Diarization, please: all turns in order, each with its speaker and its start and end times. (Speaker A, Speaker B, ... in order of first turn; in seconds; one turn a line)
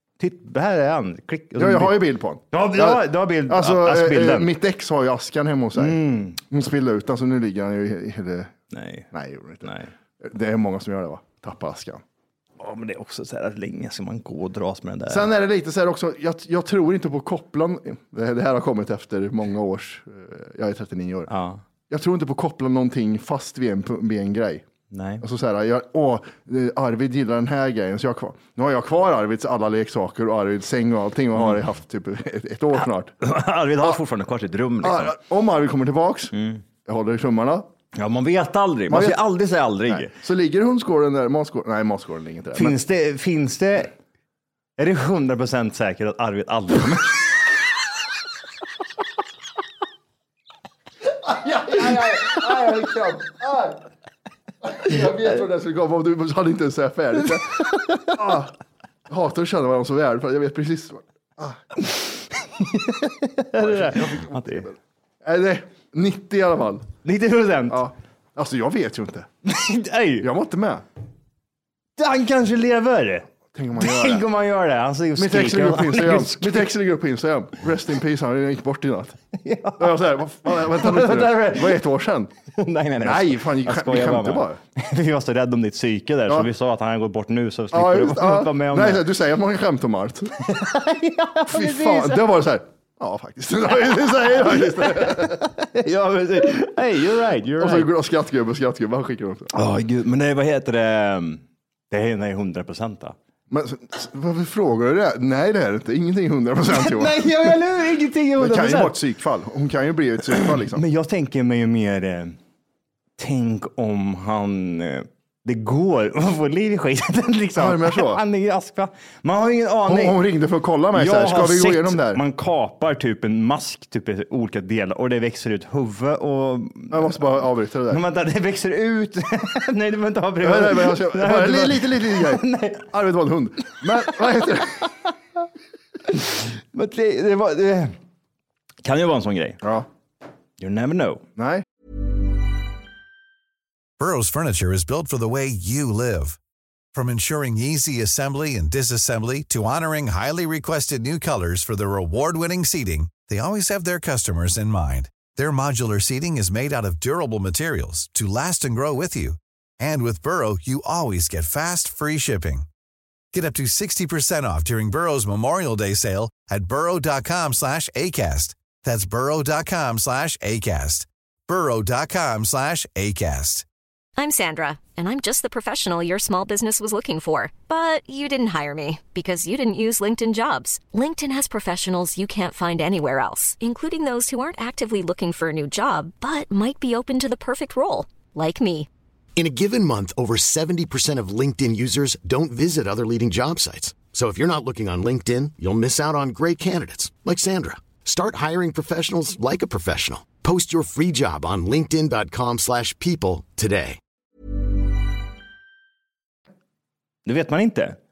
Speaker A: 0.2-2.0
Speaker B: 1.6-8.5
Speaker A: 2.5-4.5
Speaker A: 5.8-6.4
Speaker A: 8.7-9.1
Speaker B: 9.1-12.0
Speaker A: 9.6-9.9
Speaker A: 12.6-15.3
Speaker B: 15.1-21.3
Speaker A: 21.3-21.6
Speaker B: 21.9-24.6
Speaker A: 24.9-25.2
Speaker B: 25.2-33.1
Speaker A: 33.2-35.1
Speaker B: 34.8-36.3
Speaker A: 36.3-36.6
Speaker B: 36.9-37.7
Speaker A: 37.9-40.1
Speaker B: 38.9-39.2
Speaker B: 39.9-42.8
Speaker A: 42.5-43.9
Speaker A: 44.8-47.3
Speaker B: 51.2-53.8
Speaker B: 54.6-58.5
Speaker A: 57.7-58.3
Speaker B: 59.1-61.6
Speaker A: 61.9-64.7
Speaker B: 63.6-66.9
Speaker A: 67.0-67.8
Speaker B: 67.7-69.3
Speaker A: 69.5-70.3
Speaker B: 70.2-70.8
Speaker A: 72.0-73.3
Speaker B: 73.5-74.3
Speaker A: 73.8-76.7
Speaker B: 75.2-79.2
Speaker A: 79.3-81.8
Speaker B: 79.8-82.3
Speaker A: 82.5-89.0
Speaker B: 83.0-84.6
Speaker B: 87.7-90.4
Speaker A: 90.4-92.3
Speaker B: 91.5-95.4
Speaker A: 94.8-97.9
Speaker B: 97.6-99.5
Speaker A: 99.5-103.2
Speaker B: 103.5-107.5
Speaker A: 106.7-109.0
Speaker B: 108.4-110.8
Speaker A: 110.3-112.4
Speaker A: 113.2-120.2
Speaker B: 117.6-118.2
Speaker B: 119.9-122.2
Speaker A: 121.0-127.2
Speaker B: 126.9-128.0
Speaker A: 127.9-132.9
Speaker B: 130.4-134.9
Speaker A: 136.1-137.9
Speaker A: 138.8-139.6
Speaker A: 140.6-141.2
Speaker B: 141.4-141.6
Speaker C: 144.0-146.4
Speaker C: 146.9-162.7
Speaker C: 163.3-173.7
Speaker D: 174.2-188.9
Speaker E: 189.4-204.0
Speaker A: 207.3-208.0